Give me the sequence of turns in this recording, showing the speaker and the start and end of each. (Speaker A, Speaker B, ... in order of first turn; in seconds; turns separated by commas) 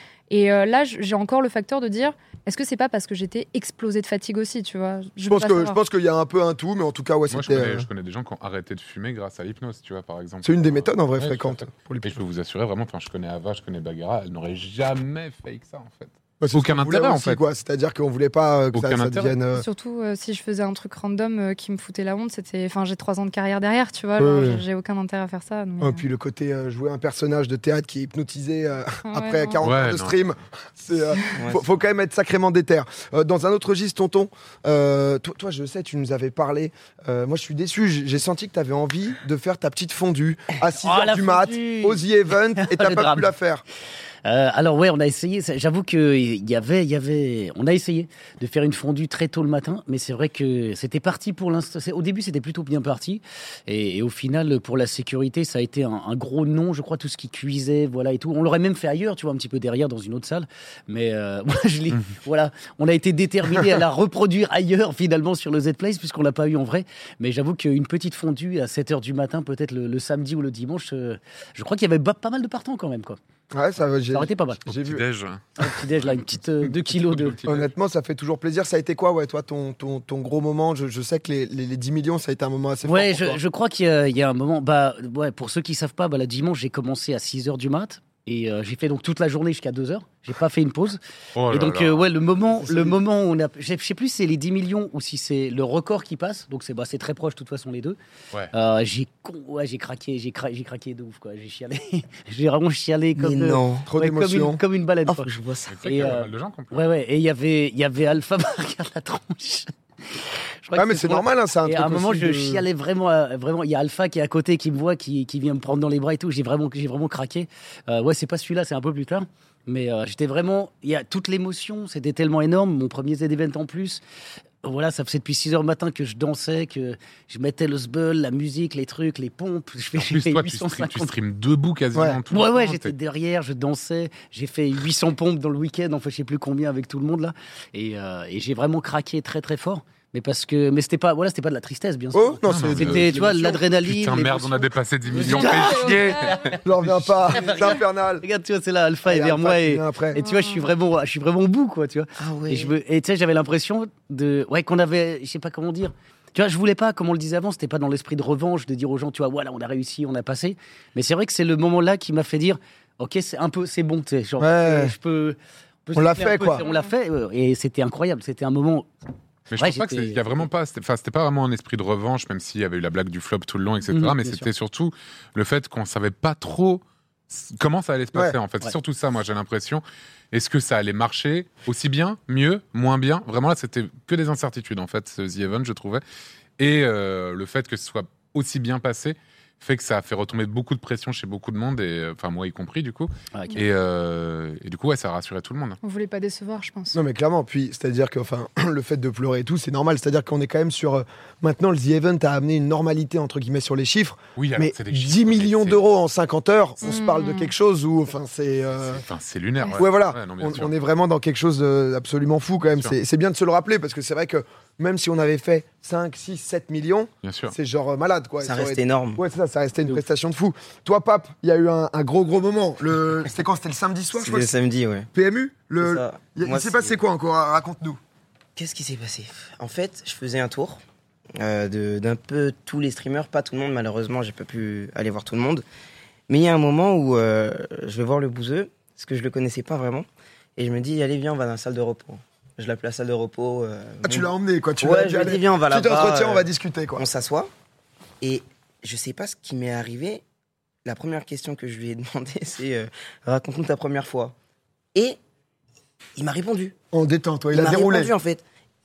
Speaker A: 0.3-5.8, Speaker B: 5.2-7.9, Speaker C: 7.3-17.4, Speaker B: 10.4-12.2, Speaker B: 16.4-19.6, Speaker C: 18.7-19.4, Speaker A: 19.5-26.0, Speaker B: 24.2-24.6, Speaker B: 25.8-43.6, Speaker A: 29.1-29.6, Speaker C: 29.6-30.2, Speaker D: 31.4-31.6, Speaker E: 40.8-42.0, Speaker E: 42.6-43.3, Speaker E: 44.2-73.2, Speaker B: 73.5-75.0, Speaker E: 74.1-74.7, Speaker C: 74.7-77.7, Speaker E: 75.6-77.4, Speaker B: 77.5-83.4, Speaker E: 82.8-98.0, Speaker C: 91.4-92.0, Speaker B: 92.6-93.0, Speaker E: 98.5-105.3, Speaker D: 103.2-103.9, Speaker B: 103.9-104.6, Speaker D: 105.1-106.2, Speaker C: 105.7-106.8, Speaker E: 105.8-124.0, Speaker B: 110.8-112.6, Speaker E: 124.6-131.1, Speaker C: 129.9-132.9, Speaker E: 132.3-168.9, Speaker B: 142.1-143.6, Speaker C: 142.5-146.6, Speaker A: 145.3-146.4, Speaker B: 146.6-148.2, Speaker B: 149.1-150.2, Speaker A: 150.2-150.7, Speaker D: 152.2-152.8, Speaker B: 164.4-164.9, Speaker B: 165.9-166.7, Speaker A: 166.6-166.9, Speaker C: 169.5-186.0, Speaker E: 169.6-170.4, Speaker E: 173.9-174.5, Speaker C: 186.6-195.8, Speaker E: 193.3-193.6, Speaker A: 195.8-197.0, Speaker B: 196.9-209.1, Speaker C: 204.4-205.8, Speaker A: 206.8-207.5, Speaker C: 208.9-210.8, Speaker B: 209.7-224.5, Speaker C: 217.2-217.6, Speaker D: 218.4-219.2, Speaker D: 224.2-225.1, Speaker B: 225.1-228.0, Speaker D: 225.8-227.0, Speaker D: 228.6-230.8, Speaker D: 231.4-235.7, Speaker D: 236.3-247.5, Speaker B: 244.0-247.1, Speaker D: 248.2-250.2, Speaker D: 250.8-254.3, Speaker D: 256.2-256.8, Speaker B: 256.9-258.1, Speaker D: 257.5-258.4